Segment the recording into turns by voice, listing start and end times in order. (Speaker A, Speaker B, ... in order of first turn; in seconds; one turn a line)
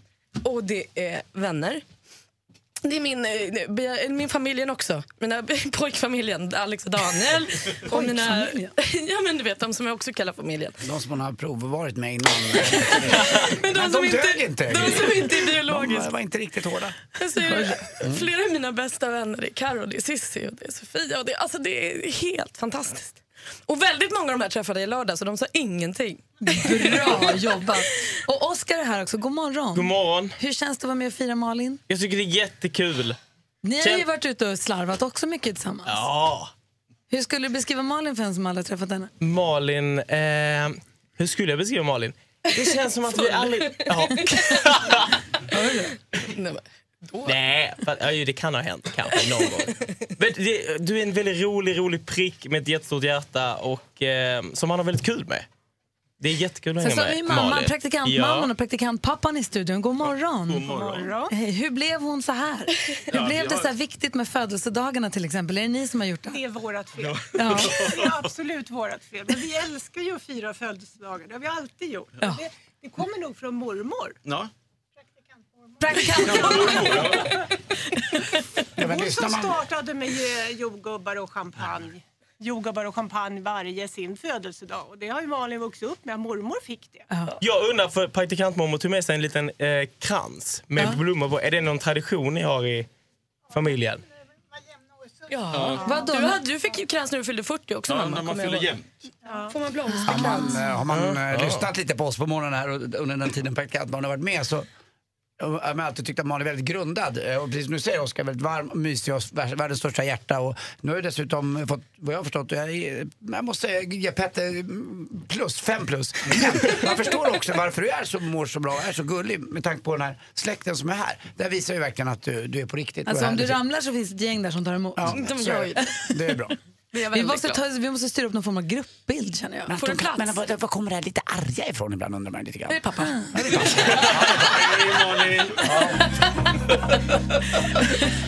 Speaker A: 0.4-1.8
Speaker A: 2.8-10.8
Speaker B: 7.9-8.7
Speaker C: 10.8-17.0
Speaker A: 12.7-16.1
Speaker A: 17.2-27.4
Speaker C: 18.0-18.3
Speaker B: 26.4-31.8
Speaker D: 29.7-30.4
Speaker D: 31.9-33.2
Speaker B: 33.6-36.0
Speaker D: 33.8-34.0
Speaker D: 35.9-36.5
Speaker B: 37.1-39.1
Speaker D: 39.2-45.1
Speaker A: 43.1-44.1
Speaker B: 45.5-45.9
Speaker A: 46.2-47.4
Speaker D: 47.2-55.5
Speaker D: 56.2-58.5
Speaker B: 56.8-66.4
Speaker D: 60.5-61.1
Speaker E: 60.7-61.3
Speaker E: 66.3-74.2
Speaker B: 67.3-67.9
Speaker B: 75.8-77.0
Speaker E: 76.2-77.2
Speaker D: 76.4-77.3
Speaker C: 78.8-79.6
Speaker E: 78.8-87.1
Speaker B: 87.1-87.4
Speaker D: 87.4-92.9
Speaker D: 93.5-94.0
Speaker A: 95.3-98.8
Speaker B: 95.8-96.4
Speaker A: 99.3-100.7
Speaker C: 100.1-104.7
Speaker B: 100.2-100.5
Speaker D: 100.9-101.7
Speaker C: 105.4-123.6
Speaker B: 123.1-125.5
Speaker C: 125.0-126.5
Speaker A: 125.1-126.0
Speaker A: 126.9-127.6
Speaker B: 127.1-129.7
Speaker C: 129.7-134.8
Speaker A: 129.8-130.4
Speaker A: 132.7-133.6
Speaker B: 133.1-133.3
Speaker D: 134.0-135.7